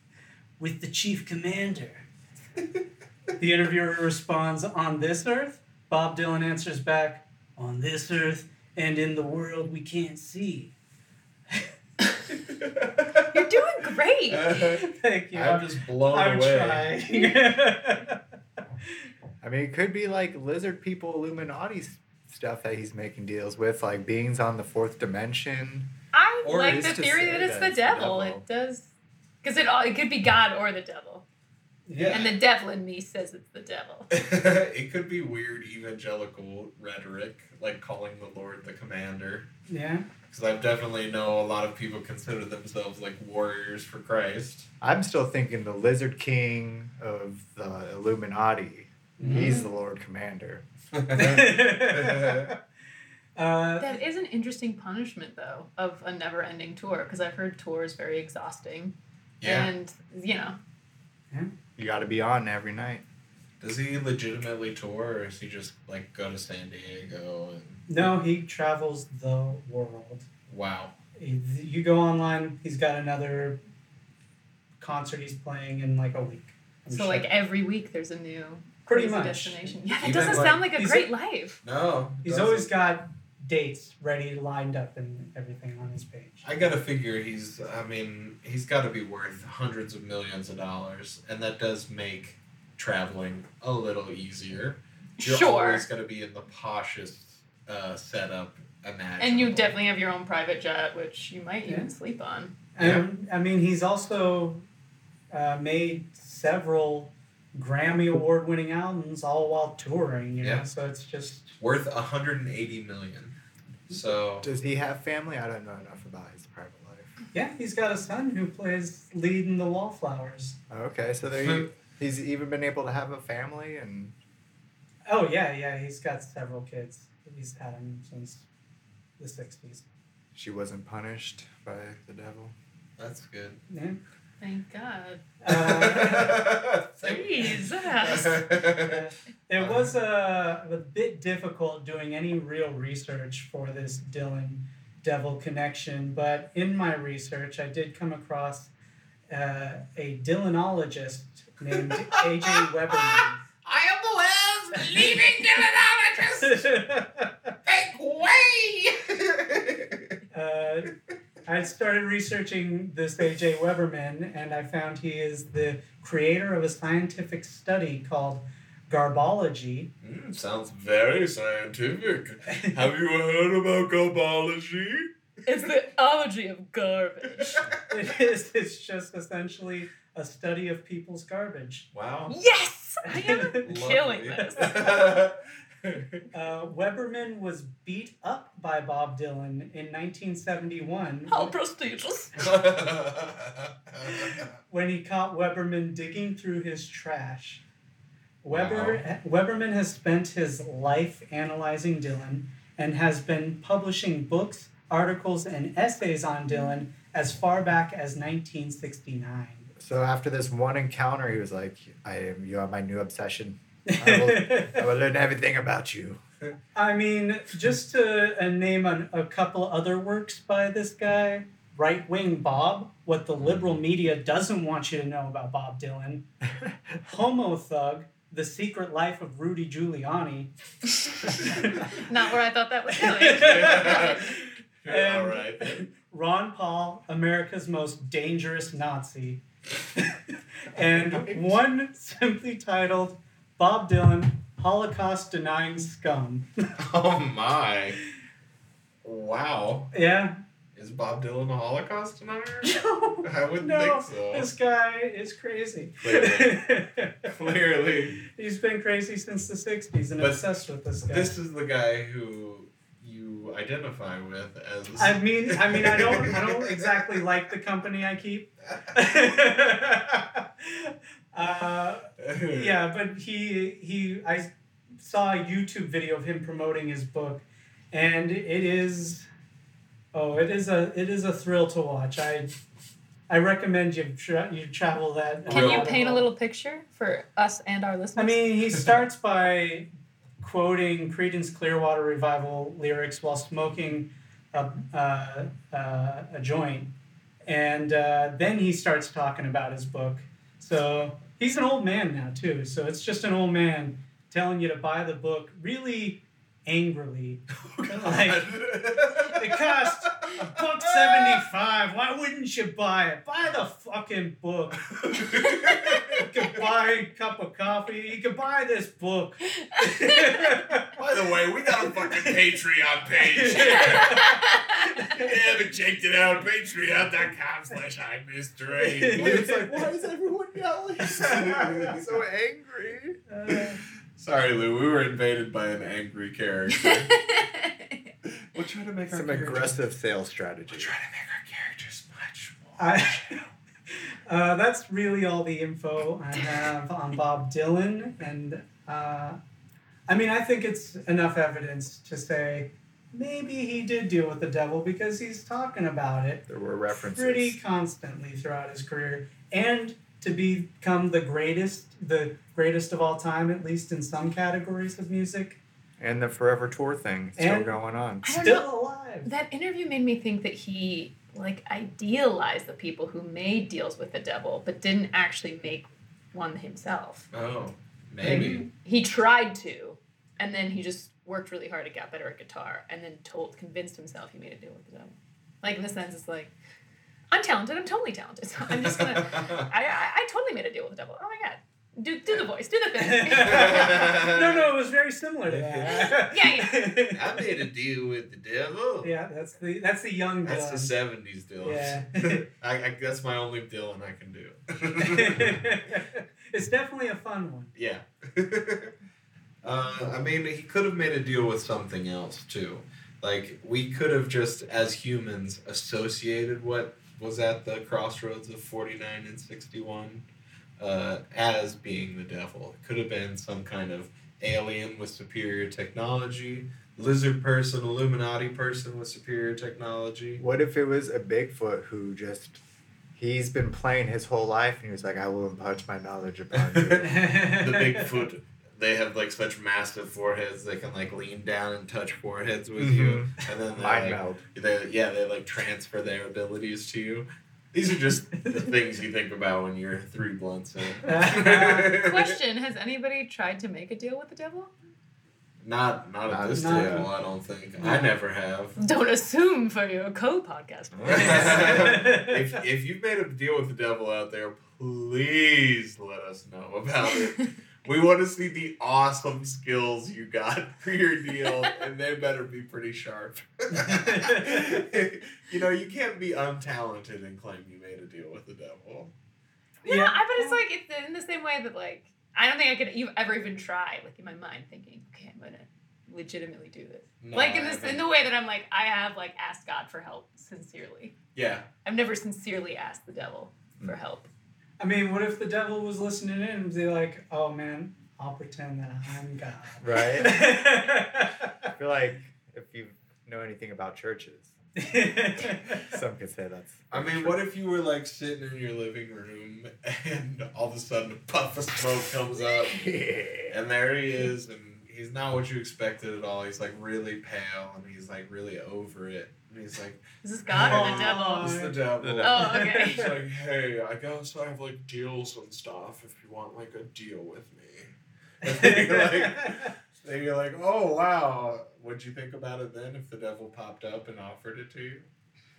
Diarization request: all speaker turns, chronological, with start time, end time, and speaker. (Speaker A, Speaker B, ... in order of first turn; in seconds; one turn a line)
Speaker A: 0.6-2.0
Speaker A: 3.4-10.7
Speaker B: 12.6-13.3
Speaker C: 13.3-14.7
Speaker B: 14.3-16.9
Speaker A: 14.8-18.2
Speaker D: 19.4-25.9
Speaker C: 26.1-28.9
Speaker B: 26.4-27.0
Speaker D: 26.6-28.4
Speaker C: 29.4-31.2
Speaker A: 31.9-32.2
Speaker B: 32.0-32.3
Speaker C: 32.1-34.1
Speaker B: 34.1-39.5
Speaker A: 39.7-40.1
Speaker B: 40.3-44.7
Speaker D: 44.8-50.6
Speaker A: 49.2-49.7
Speaker B: 51.0-52.5
Speaker A: 51.1-52.6
Speaker A: 53.4-54.0
Speaker C: 53.8-60.6
Speaker B: 59.4-59.7
Speaker D: 61.8-63.0
Speaker B: 63.6-67.8
Speaker A: 67.9-70.3
Speaker B: 70.5-70.9
Speaker A: 71.2-73.6
Speaker A: 74.8-77.3
Speaker C: 76.9-81.6
Speaker A: 78.9-81.1
Speaker B: 80.0-80.6
Speaker B: 81.6-82.7
Speaker A: 82.2-86.5
Speaker B: 86.4-99.8
Speaker C: 95.2-95.8
Speaker C: 99.2-102.6
Speaker A: 102.7-104.6
Speaker B: 102.8-103.0
Speaker A: 105.3-111.6
Speaker B: 110.4-110.7
Speaker B: 111.6-113.3
Speaker B: 113.9-114.5
Speaker D: 114.4-117.1
Speaker A: 117.3-120.6
Speaker D: 120.7-124.1
Speaker A: 125.1-128.4
Speaker A: 129.2-129.8
Speaker D: 130.3-132.5
Speaker B: 133.0-133.6
Speaker A: 133.7-134.0
Speaker C: 134.4-135.2
Speaker A: 135.4-136.4
Speaker B: 135.5-139.0
Speaker C: 137.0-138.5
Speaker A: 138.8-148.7
Speaker B: 139.6-139.9
Speaker A: 149.3-153.4
Speaker E: 153.6-156.5
Speaker B: 153.7-155.7
Speaker A: 156.4-157.5
Speaker E: 157.7-158.8
Speaker B: 158.2-160.1
Speaker A: 160.3-160.9
Speaker A: 161.4-169.9
Speaker B: 170.0-175.1
Speaker A: 172.5-172.7
Speaker C: 175.4-177.6
Speaker A: 177.9-181.9
Speaker B: 181.9-182.3
Speaker C: 182.3-184.8
Speaker A: 183.1-183.6
Speaker B: 183.6-186.2
Speaker A: 186.3-191.5
Speaker C: 191.3-192.3
Speaker B: 192.4-194.5
Speaker A: 194.1-197.6
Speaker A: 198.4-209.7
Speaker B: 198.5-199.0
Speaker D: 209.8-216.2
Speaker A: 213.9-214.8
Speaker A: 216.7-226.3
Speaker A: 227.0-230.5
Speaker A: 231.2-232.1
Speaker C: 231.9-234.2
Speaker A: 233.0-239.4
Speaker B: 233.2-235.9
Speaker A: 239.9-246.5
Speaker B: 240.8-241.5
Speaker B: 246.8-248.0
Speaker B: 249.0-249.9
Speaker A: 249.9-250.4
Speaker B: 250.8-252.7
Speaker A: 252.6-257.3
Speaker B: 253.2-254.5
Speaker B: 256.0-256.6
Speaker B: 257.2-258.2
Speaker A: 258.3-261.3
Speaker B: 260.2-260.4
Speaker B: 261.0-267.1
Speaker A: 265.0-279.3
Speaker B: 272.2-272.8
Speaker A: 280.1-282.5
Speaker A: 283.3-286.3
Speaker B: 285.5-286.1
Speaker C: 285.5-288.8
Speaker A: 288.1-289.9
Speaker A: 290.4-296.9
Speaker A: 297.4-308.5
Speaker B: 307.6-311.4
Speaker A: 309.3-314.9
Speaker B: 314.9-316.6
Speaker A: 315.7-320.9
Speaker C: 320.0-320.3
Speaker B: 320.9-332.2
Speaker A: 322.1-322.4
Speaker A: 323.1-325.3
Speaker C: 323.5-324.8
Speaker A: 328.7-329.7
Speaker D: 329.2-329.6
Speaker D: 331.4-333.2
Speaker A: 333.3-333.8
Speaker B: 334.1-337.2
Speaker C: 336.8-337.9
Speaker B: 338.5-339.8
Speaker D: 339.1-340.9
Speaker B: 340.7-343.5
Speaker A: 342.8-343.4
Speaker A: 344.3-349.4
Speaker A: 350.1-365.6
Speaker D: 356.5-357.6
Speaker D: 366.0-368.2
Speaker A: 367.4-369.3
Speaker C: 368.2-368.7
Speaker C: 369.2-377.3
Speaker B: 377.3-378.6
Speaker C: 378.2-386.5
Speaker C: 387.3-394.1
Speaker B: 388.7-389.7
Speaker A: 393.0-397.3
Speaker B: 393.3-394.7
Speaker B: 395.5-396.2
Speaker C: 395.9-397.0
Speaker B: 397.1-399.1
Speaker A: 399.0-400.9
Speaker B: 400.4-406.0
Speaker A: 401.6-402.4
Speaker A: 405.0-407.7
Speaker B: 407.7-408.9
Speaker B: 409.6-420.2
Speaker B: 420.8-430.4
Speaker D: 430.4-432.6
Speaker D: 433.1-437.2
Speaker B: 436.5-452.3
Speaker A: 437.0-438.1
Speaker D: 442.8-444.4
Speaker A: 451.0-452.0
Speaker C: 452.0-454.7
Speaker B: 455.6-458.8
Speaker D: 456.3-457.1
Speaker A: 456.5-457.1
Speaker A: 457.8-458.1
Speaker C: 458.8-461.8
Speaker D: 460.9-462.0
Speaker B: 461.0-479.1
Speaker A: 461.1-462.4
Speaker A: 473.7-474.7
Speaker A: 479.8-480.6
Speaker C: 479.8-491.2
Speaker B: 487.2-488.0
Speaker B: 491.3-491.7
Speaker C: 491.8-494.3
Speaker A: 494.8-501.7
Speaker D: 499.8-500.4
Speaker D: 501.6-504.5
Speaker A: 504.8-505.9
Speaker D: 505.7-507.4
Speaker B: 506.9-512.9
Speaker D: 512.7-513.5
Speaker B: 513.5-535.1
Speaker C: 520.2-521.6
Speaker A: 520.6-521.8
Speaker D: 522.0-522.4
Speaker C: 522.2-523.1
Speaker A: 522.4-523.1
Speaker A: 528.4-529.5